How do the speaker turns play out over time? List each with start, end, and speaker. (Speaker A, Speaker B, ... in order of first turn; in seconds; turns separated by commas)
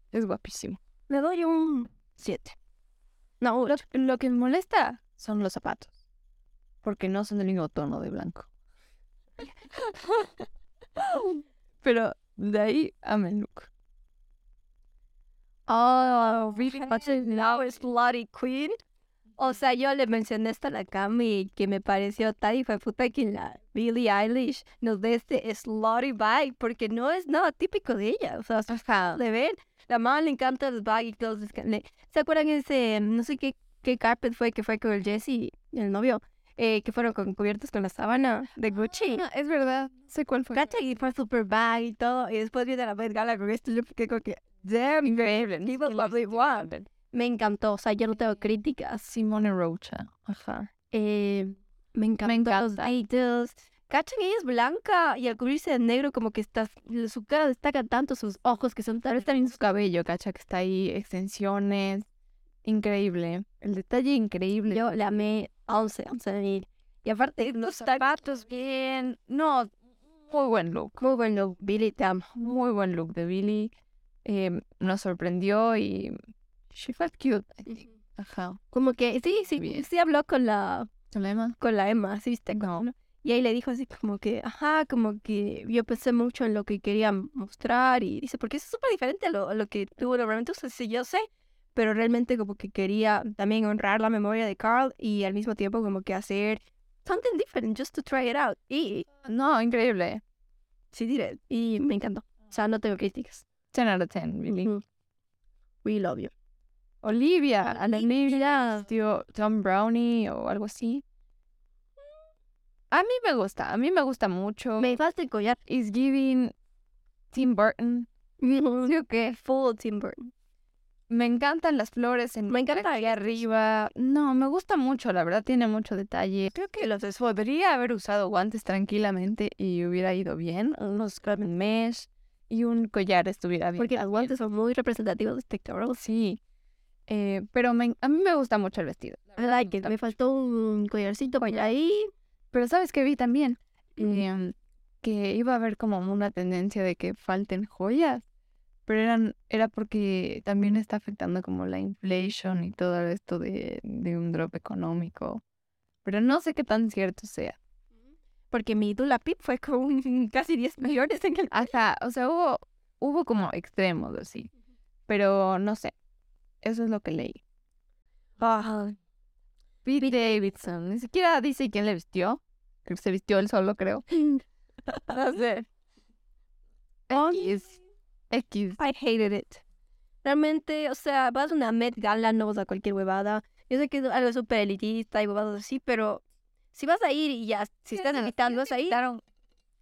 Speaker A: 0.1-0.8, Speaker B: 1.1-2.5, Speaker B: 3.4-3.8, Speaker A: 3.7-5.9, Speaker A: 6.8-8.5, Speaker A: 9.8-10.3, Speaker B: 11.0-11.4, Speaker A: 11.8-13.7, Speaker B: 15.7-18.8, Speaker A: 16.7-17.1, Speaker B: 19.4-39.2, Speaker A: 28.7-29.2, Speaker A: 38.7-40.8, Speaker B: 40.5-45.1, Speaker A: 44.6-46.9, Speaker B: 45.6-49.1, Speaker A: 49.0-50.7, Speaker B: 50.9-59.5, Speaker A: 52.2-52.9, Speaker A: 59.2-62.1, Speaker A: 62.6-64.8, Speaker B: 64.7-68.1, Speaker A: 67.6-69.7, Speaker A: 70.2-71.0, Speaker B: 71.0-72.3, Speaker A: 72.3-73.7, Speaker A: 74.2-76.2, Speaker A: 76.7-78.6, Speaker B: 78.7-80.9, Speaker A: 79.5-79.9, Speaker A: 81.1-81.6, Speaker B: 81.6-99.1, Speaker A: 82.5-82.9, Speaker A: 99.2-100.2, Speaker B: 100.9-103.5, Speaker A: 103.7-104.7, Speaker B: 104.5-104.8, Speaker B: 105.8-106.3, Speaker A: 107.0-111.0, Speaker B: 107.8-108.6, Speaker A: 112.9-115.0, Speaker B: 114.8-115.6, Speaker A: 115.7-116.5, Speaker A: 117.3-118.1, Speaker B: 118.4-120.3, Speaker A: 118.8-119.4, Speaker A: 121.1-134.3, Speaker B: 122.5-123.4, Speaker B: 126.5-127.1, Speaker B: 133.8-136.0, Speaker A: 136.0-136.4, Speaker A: 137.1-139.9, Speaker B: 139.4-142.1, Speaker A: 142.5-148.2, Speaker A: 148.9-155.4, Speaker A: 156.0-157.6, Speaker B: 158.5-161.7, Speaker A: 161.5-164.5, Speaker A: 165.1-165.9, Speaker A: 166.6-167.4, Speaker B: 168.4-168.8, Speaker A: 168.6-168.9, Speaker A: 169.8-174.4, Speaker B: 170.0-170.3, Speaker A: 175.0-175.7, Speaker A: 177.1-177.8, Speaker B: 177.1-177.7, Speaker A: 178.3-178.8, Speaker B: 178.8-179.6, Speaker B: 180.2-186.2, Speaker B: 186.7-189.0, Speaker A: 187.9-189.2